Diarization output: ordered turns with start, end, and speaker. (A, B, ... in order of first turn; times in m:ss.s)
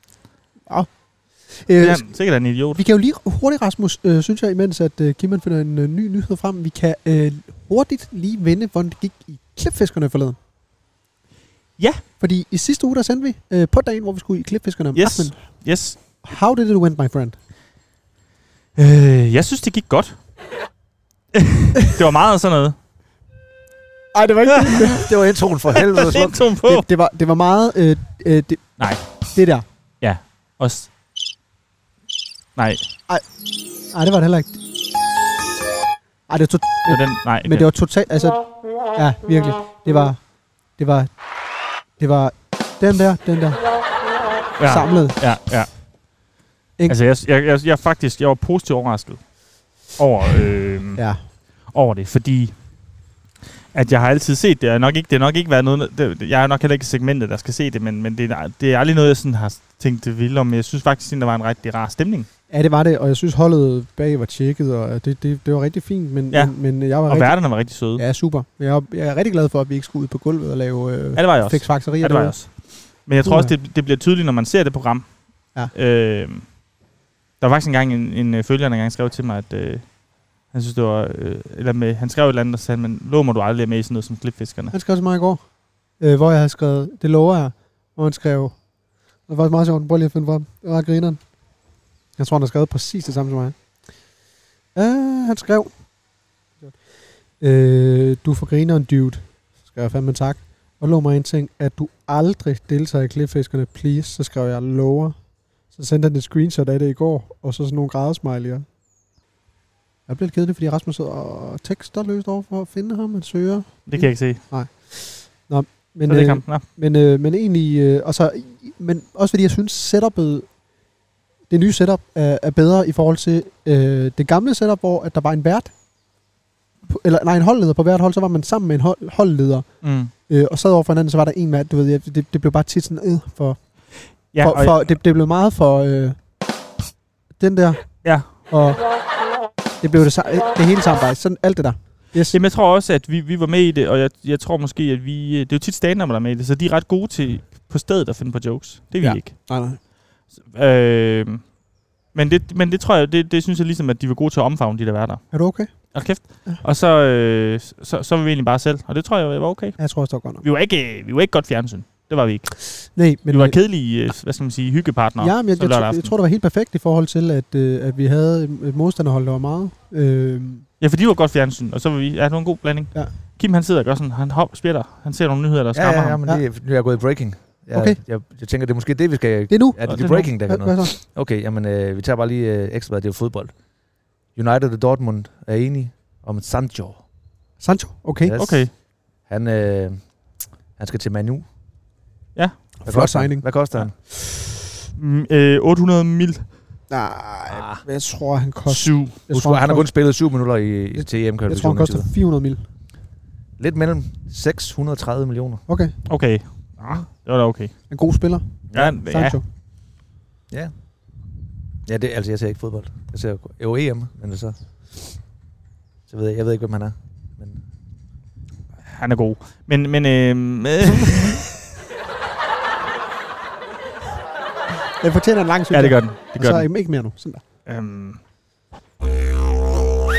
0:00.6-0:10.4 A
0:01.8-0:02.8 B
0:11.8-0:12.0 B
0:12.2-0:17.4 A
0:14.9-0:16.0 B
0:18.7-0:20.3 B
0:21.3-0:22.8 B
0:24.1-0:25.1 A
0:24.5-0:24.9 B
0:24.9-0:26.5 C
0:25.9-0:26.8 B
0:26.6-0:29.6 A
0:28.8-0:29.3 B
0:30.0-0:30.9 B
0:32.6-0:32.9 B
0:33.9-0:34.6 A
0:36.3-0:41.2 A
0:36.9-0:37.7 B
0:42.0-0:43.7 A
0:44.6-0:45.8 B
0:44.6-0:45.2 A
0:46.9-0:52.6 B
0:51.0-0:51.2 A
0:53.7-1:02.3 B
1:02.5-1:13.5 A
1:06.3-1:08.0 B
1:11.1-1:16.5 B
1:17.4-1:24.7 B
1:24.7-1:28.6 A
1:29.2-1:31.3 A
1:32.2-1:33.6 A
1:34.7-1:35.8 A
1:37.4-1:48.6 A
1:50.1-2:00.5 A
1:53.8-1:54.4 B
1:56.1-1:56.6 B
2:01.5-2:05.7 A
2:06.9-2:16.2 A
2:09.8-2:10.1 B
2:14.3-2:14.9 B
2:17.4-2:18.8 A
2:18.0-2:18.3 B
2:19.8-2:22.4 A
2:22.3-2:29.5 B
2:29.0-2:29.8 A
2:30.3-2:31.6 B
2:32.1-2:39.8 B
2:35.3-2:36.6 A
2:39.8-2:40.4 A
2:40.4-2:46.1 B
2:42.9-2:43.6 A
2:45.2-2:50.7 A
2:50.8-2:56.2 B
2:55.7-3:03.6 C
2:57.7-2:58.0 A
2:59.5-3:01.0 A
2:59.9-3:00.3 B
3:04.3-3:07.0 C
3:07.6-3:08.4 A
3:08.2-3:11.5 C
3:08.3-3:08.7 B
3:12.3-3:12.7 B
3:12.8-3:13.5 A
3:12.8-3:13.9 C
3:13.8-3:14.2 B
3:15.0-3:16.5 B
3:16.9-3:19.9 A
3:17.5-3:17.8 C
3:18.7-3:19.2 B
3:19.3-3:22.1 C
3:20.9-3:22.6 A
3:23.6-3:25.6 C
3:25.7-3:26.0 A
3:26.0-3:27.9 B
3:27.9-3:29.4 A
3:28.7-3:29.0 C
3:28.7-3:29.4 B
3:31.8-3:35.0 C
3:36.1-3:37.6 C
3:38.9-3:41.5 B
3:41.0-3:41.2 A
3:45.0-3:47.4 A
3:45.7-3:46.7 B
3:47.6-3:48.2 B